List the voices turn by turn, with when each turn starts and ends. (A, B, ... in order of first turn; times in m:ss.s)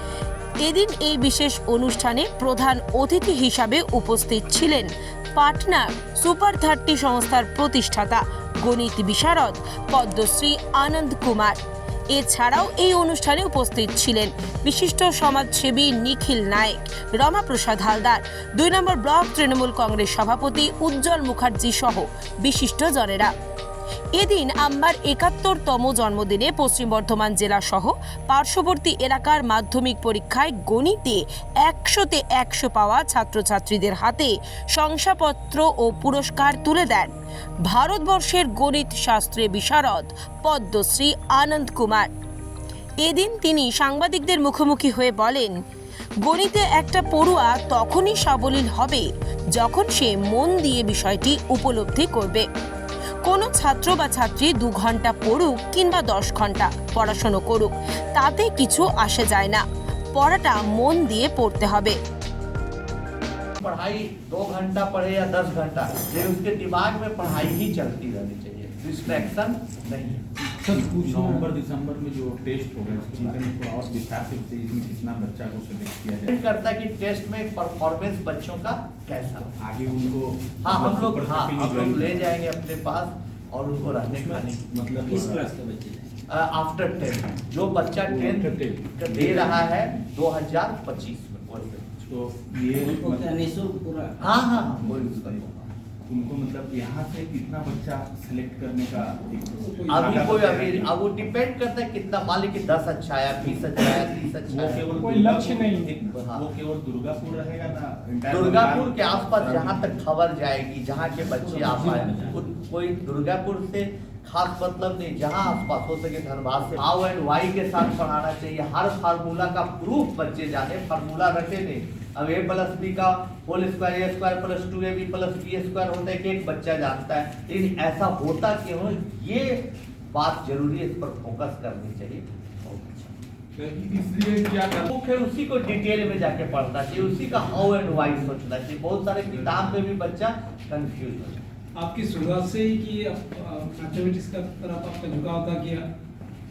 0:00.6-0:11.6 A
0:12.1-0:23.3 A
0:24.2-0:37.1 A
0:37.7-0:42.1 A
0:43.0-0:45.5 A
0:46.2-0:52.5 A
0:53.2-0:59.6 A
1:00.2-1:02.0 A
1:03.6-1:10.2 B
1:10.6-1:16.4 C
1:16.3-1:19.5 B
1:19.5-1:22.5 C
1:20.6-1:24.7 B
1:23.8-1:25.5 C
1:25.0-1:26.1 D
1:26.3-1:31.9 B
1:27.8-1:29.9 C
1:32.0-1:33.4 C
1:32.7-1:34.7 D
1:34.2-1:35.6 C
1:34.2-1:35.6 B
1:36.1-1:41.0 C
1:39.6-1:40.3 E
1:40.2-1:44.9 B
1:43.3-1:50.1 C
1:45.0-1:46.0 E
1:48.3-2:13.1 B
1:51.2-1:52.7 D
2:13.6-2:14.9 C
2:14.9-2:21.4 B
2:16.8-2:18.2 C
2:19.3-2:19.7 C
2:21.8-2:25.9 E